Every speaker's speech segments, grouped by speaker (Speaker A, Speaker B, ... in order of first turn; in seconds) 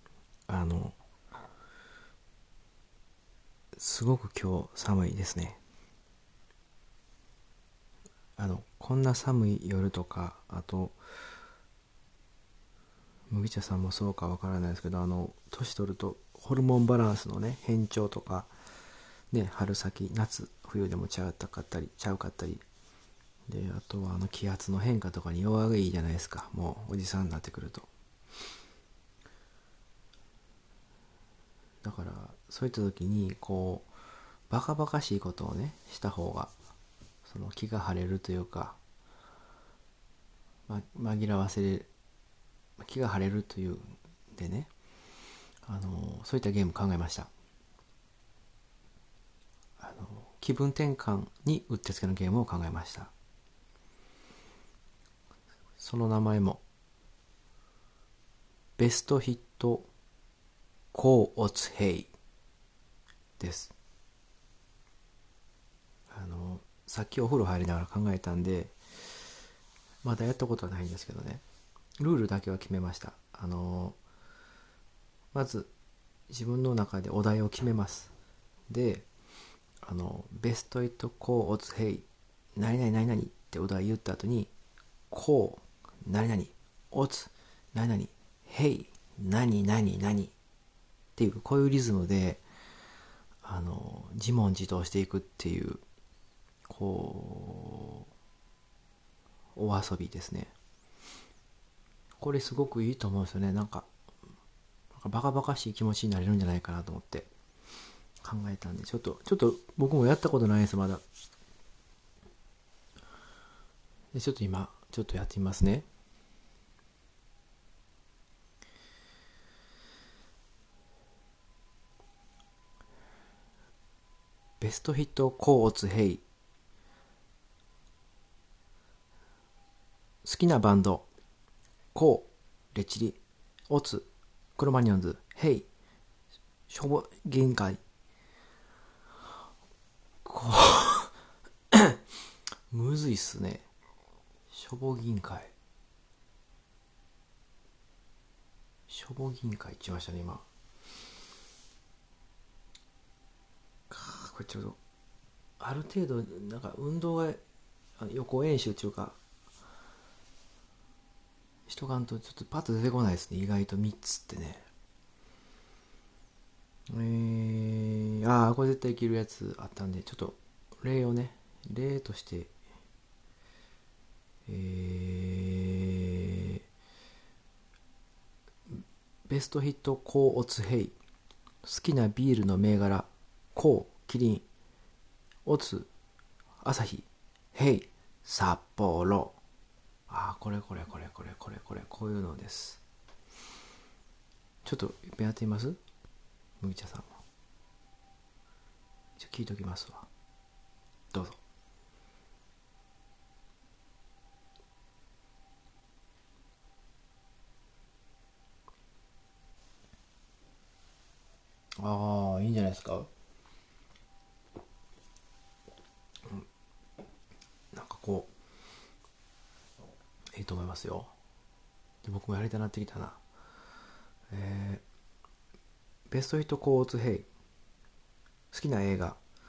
Speaker A: 0.5-1.0, 3.8-5.6, 8.4-11.0, 13.3-18.5, 19.3-22.6, 23.5-27.9, 31.8-33.9, 34.5-36.5, 37.2-38.8, 40.7-41.9, 42.8-44.7, 45.7-47.3, 49.8-53.1, 55.8-56.6, 58.8-59.9, 60.9-62.1, 63.4-63.7, 66.1-68.8, 70.0-71.4, 72.0-74.0, 75.3-75.7, 76.3-78.1, 78.7-79.1, 79.8-84.5, 85.1-90.3, 91.2-92.4, 93.4-95.8, 96.7-98.1, 99.6-100.5, 102.2-103.9, 104.9-107.3, 108.2-111.0, 114.1-115.9, 124.6-126.2, 130.2-131.1, 131.9-135.7, 136.7-137.8, 140.2-141.1, 141.7-142.0, 142.7-143.7, 144.5-145.5, 148.9-150.4, 153.9-154.8, 155.6-157.4, 158.0-159.2, 161.7-164.7, 166.9-172.5, 174.5-176.6, 178.7-181.0, 181.6-184.5, 185.4-185.9, 186.6-189.4, 190.1-192.8, 194.6-195.8, 196.6-197.2, 199.2-200.1, 201.1-201.4, 211.8-213.1, 217.7-218.3, 220.3-221.1, 222.0-223.2, 224.3-224.8, 226.1-227.3, 228.5-229.2